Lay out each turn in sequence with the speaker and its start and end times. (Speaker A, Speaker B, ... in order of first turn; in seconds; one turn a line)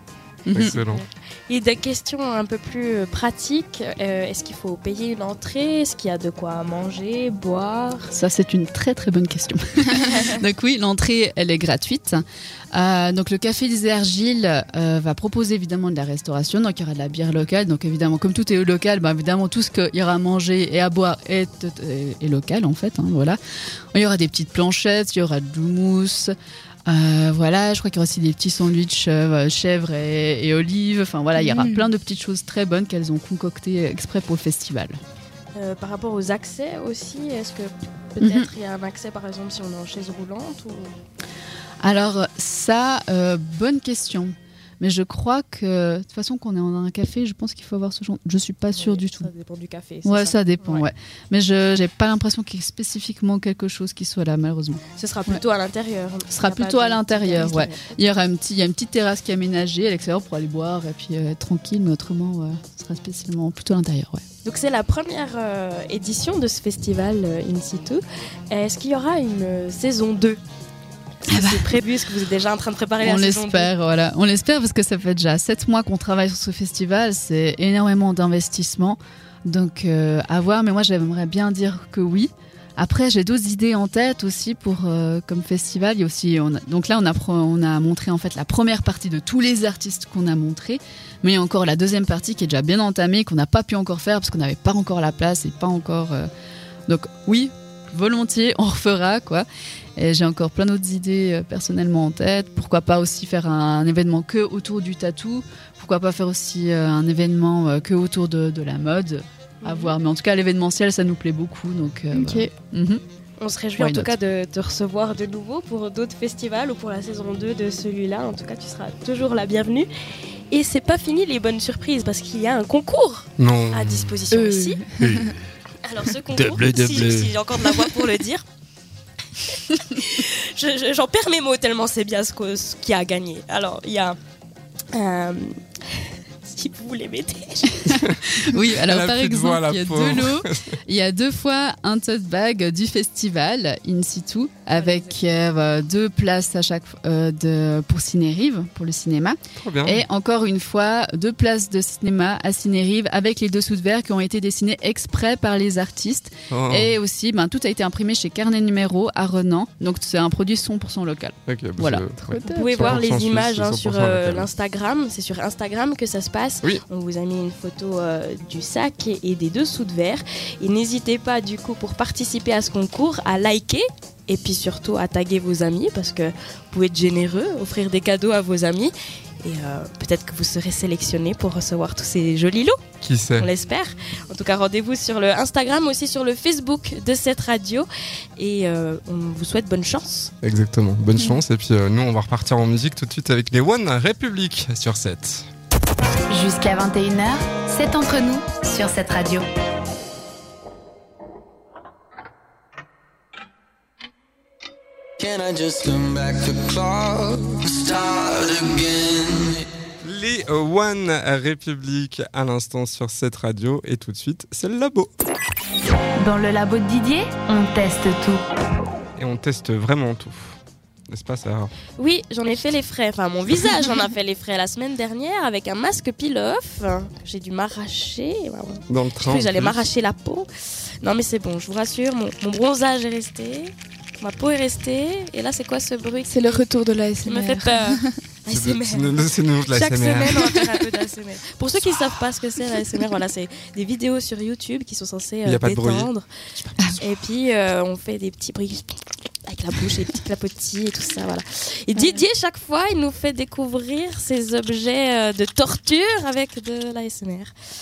Speaker A: 0.5-0.8
Speaker B: 0.5-1.0
Speaker C: 0.7-8.1
Speaker A: 8.1-23.4
Speaker C: 10.0-10.3
Speaker A: 23.9-26.3
Speaker A: 26.9-35.0
Speaker D: 31.4-31.9
Speaker C: 35.5-41.0
Speaker A: 38.2-38.5
Speaker A: 41.8-49.3
Speaker C: 48.7-50.9
Speaker A: 50.0-55.4
Speaker C: 55.0-57.9
Speaker A: 56.3-64.2
Speaker C: 64.4-70.4
Speaker C: 71.2-73.7
Speaker A: 71.3-71.8
Speaker A: 73.0-96.3
Speaker A: 96.9-113.0
Speaker C: 109.6-109.9
Speaker D: 112.1-112.5
Speaker C: 113.4-119.9
Speaker A: 113.8-114.1
Speaker C: 120.5-124.8
Speaker B: 123.4-124.1
Speaker D: 124.3-125.0
Speaker B: 125.0-125.3
Speaker C: 125.8-128.4
Speaker B: 126.3-127.4
Speaker C: 129.5-134.2
Speaker C: 134.9-138.0
Speaker B: 137.9-140.8
Speaker A: 137.9-162.6
Speaker C: 144.8-145.1
Speaker B: 149.6-150.0
Speaker B: 156.5-156.9
Speaker B: 161.5-164.5
Speaker D: 162.3-162.9
Speaker C: 162.5-182.8
Speaker B: 183.0-183.5
Speaker C: 183.4-190.3
Speaker B: 190.4-195.5
Speaker E: 196.3-199.4
Speaker F: 205.2-209.7
Speaker B: 210.0-215.1
Speaker E: 216.2-218.4
Speaker B: 219.2-220.6
Speaker B: 221.1-221.7
Speaker C: 222.0-236.6
Speaker B: 228.9-229.8
Speaker D: 236.3-238.2
Speaker C: 237.2-246.3
Speaker B: 238.5-240.6
Speaker B: 245.4-247.0
Speaker C: 247.0-257.5
Speaker D: 251.9-252.2